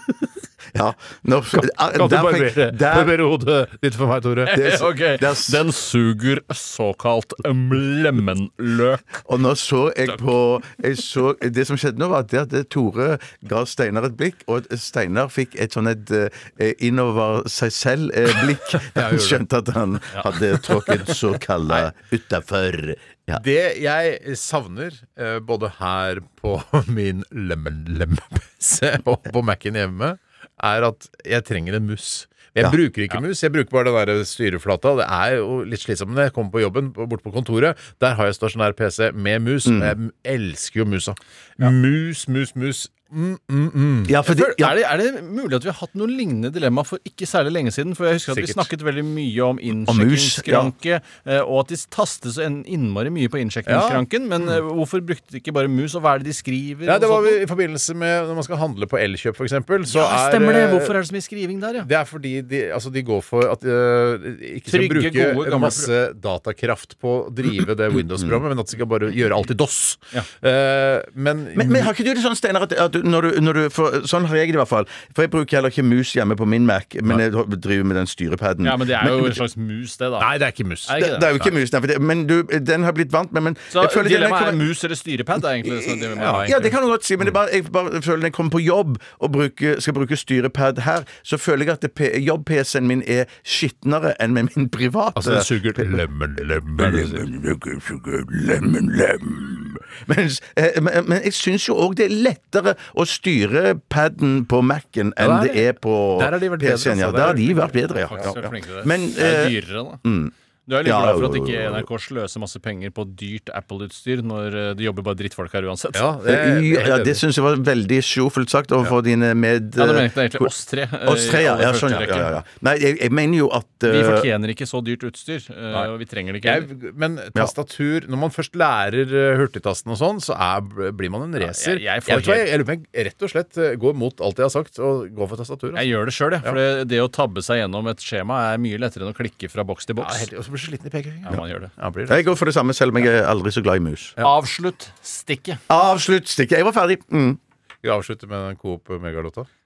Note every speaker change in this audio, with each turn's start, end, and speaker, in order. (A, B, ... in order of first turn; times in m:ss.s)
0:00.7-0:03.2 A
0:01.5-0:04.7 B
0:04.5-0:09.1 C
0:04.5-0:05.6 A
0:09.2-0:23.4 A
0:18.8-0:19.4 B
0:23.3-0:44.2 B
0:39.6-0:39.9 A
0:44.1-0:44.8 A
0:44.2-0:57.4 C
0:48.3-0:48.7 B
0:49.9-0:50.7 A
0:53.6-0:54.0 B
0:56.8-1:01.0 B
0:59.9-1:01.9 C
1:01.8-1:11.9 B
1:04.7-1:05.9 C
1:11.5-1:19.4 A
1:18.6-1:20.3 C
1:20.2-1:21.5 B
1:20.8-1:21.3 C
1:21.0-1:24.7 A
1:23.7-1:26.7 C
1:25.8-1:36.0 A
1:26.2-1:27.4 B
1:35.1-1:37.3 B
1:36.8-1:50.3 A
1:45.2-1:48.4 B
1:48.0-1:50.0 C
1:50.7-1:56.1 C
1:50.8-1:51.9 A
1:55.9-1:57.2 B
1:56.2-2:00.5 A
1:59.8-2:02.4 C
2:01.0-2:04.3 A
2:03.8-2:06.7 C
2:06.4-2:15.9 B
2:11.4-2:12.5 C
2:15.7-2:20.3 C
2:20.0-2:22.3 B
2:21.2-2:21.7 C
2:22.1-2:24.2 A
2:24.2-2:25.6 C
2:25.7-2:27.4 A
2:27.8-2:29.5 B